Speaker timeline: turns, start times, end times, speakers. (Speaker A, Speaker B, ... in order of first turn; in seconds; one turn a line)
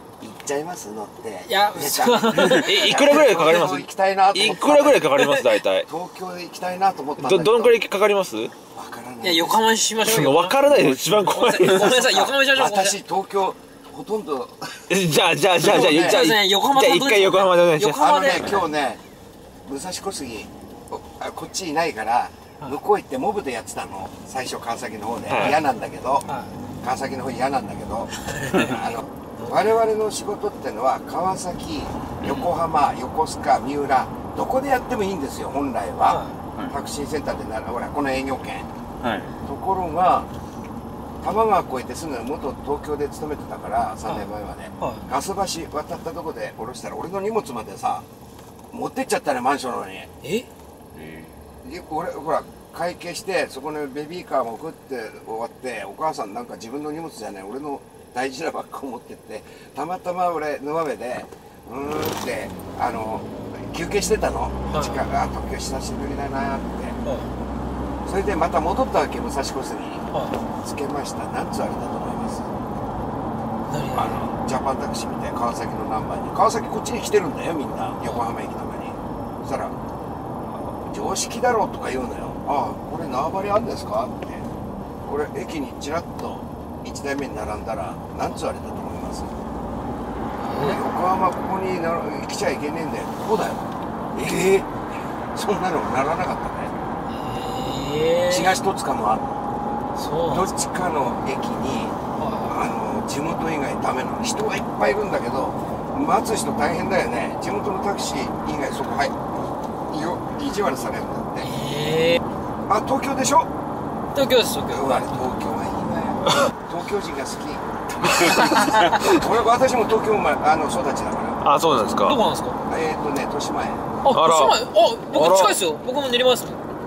Speaker A: 0.2-5.3
Speaker B: 1.5-3.2
Speaker C: 2.3-5.8
Speaker B: 5.2-5.5
Speaker A: 5.8-7.8
Speaker C: 7.2-8.5
Speaker A: 8.7-9.6
Speaker B: 9.2-10.6
Speaker C: 10.0-12.2
Speaker B: 11.2-13.0
Speaker A: 11.8-14.9
Speaker C: 14.9-18.6
Speaker A: 15.6-16.2
Speaker B: 15.9-18.7
Speaker A: 17.9-19.0
Speaker A: 19.6-26.2
Speaker C: 25.3-25.6
Speaker B: 26.3-26.5
Speaker A: 26.8-38.7
Speaker B: 28.2-29.5
Speaker B: 36.0-36.4
Speaker C: 39.0-39.3
Speaker A: 39.4-40.3
Speaker A: 41.2-48.0
Speaker B: 44.8-45.0
Speaker A: 48.7-50.1
Speaker B: 50.2-50.5
Speaker A: 51.6-67.0
Speaker B: 64.7-65.0
Speaker B: 67.0-67.3
Speaker A: 68.0-70.1
Speaker A: 70.6-72.5
Speaker B: 73.7-74.2
Speaker A: 73.9-79.7
Speaker A: 80.6-84.4
Speaker A: 85.0-89.3
Speaker A: 90.5-94.7
Speaker B: 90.5-90.8
Speaker A: 95.3-96.7
Speaker B: 97.1-98.6
Speaker A: 98.3-99.4
Speaker B: 100.0-100.5
Speaker A: 100.3-109.2
Speaker B: 102.2-102.5
Speaker A: 109.9-111.5
Speaker B: 111.4-112.2
Speaker A: 112.7-113.5
Speaker B: 114.1-115.2
Speaker A: 114.7-121.4
Speaker C: 118.5-119.0
Speaker C: 121.4-122.2
Speaker B: 121.8-122.6
Speaker A: 122.7-123.9
Speaker B: 124.0-126.6
Speaker C: 124.1-124.6
Speaker C: 125.1-125.6